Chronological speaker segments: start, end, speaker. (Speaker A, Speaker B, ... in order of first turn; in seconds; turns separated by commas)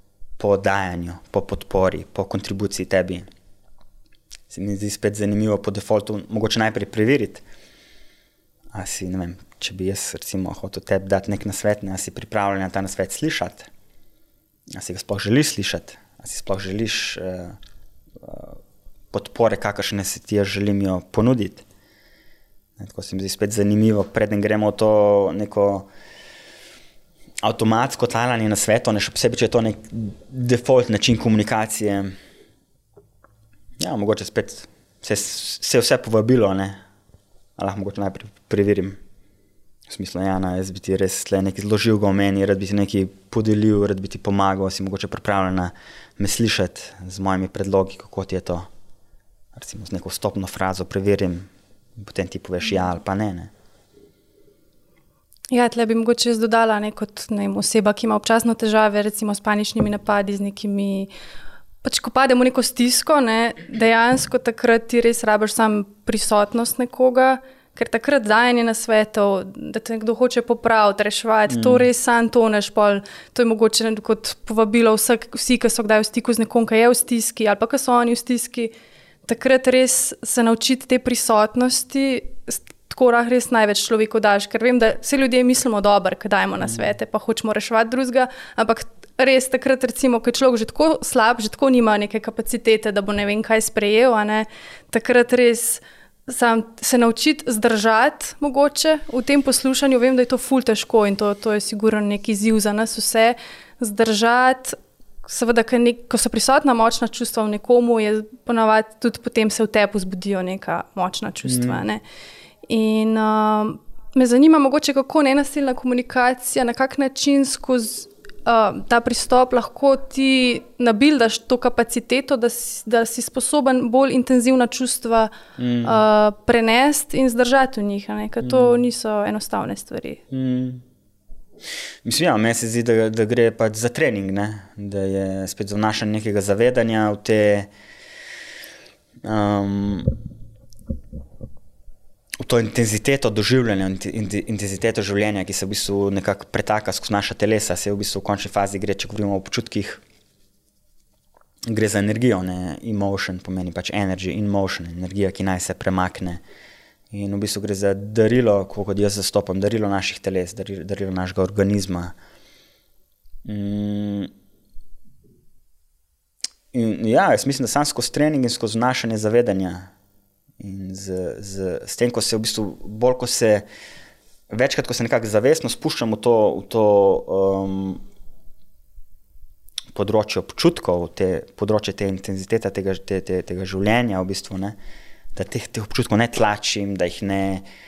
Speaker A: 0.4-3.3, Speaker A: 4.5-7.4, Speaker A: 8.7-13.7, Speaker A: 14.7-17.6, Speaker A: 18.2-18.6, Speaker A: 19.1-21.6, Speaker A: 22.8-25.9, Speaker A: 27.4-32.1, Speaker A: 33.8-36.8, Speaker A: 37.6-39.0, Speaker A: 39.9-48.7, Speaker A: 49.5-53.5, Speaker B: 55.5-61.1, Speaker B: 61.8-78.7, Speaker A: 71.5-71.9, Speaker B: 79.3-112.0, Speaker A: 111.4-111.8, Speaker B: 112.7-125.3, Speaker A: 125.6-126.0, Speaker B: 125.8-130.2, Speaker A: 128.4-128.8, Speaker A: 130.3-130.8, Speaker A: 132.0-137.7, Speaker A: 139.2-140.2, Speaker A: 142.4-150.0, Speaker A: 151.7-156.4, Speaker A: 157.1-162.2, Speaker A: 163.4-164.3, Speaker A: 166.7-169.9, Speaker A: 170.6-173.7, Speaker A: 174.5-178.0, Speaker A: 179.9-184.8, Speaker A: 185.3-187.7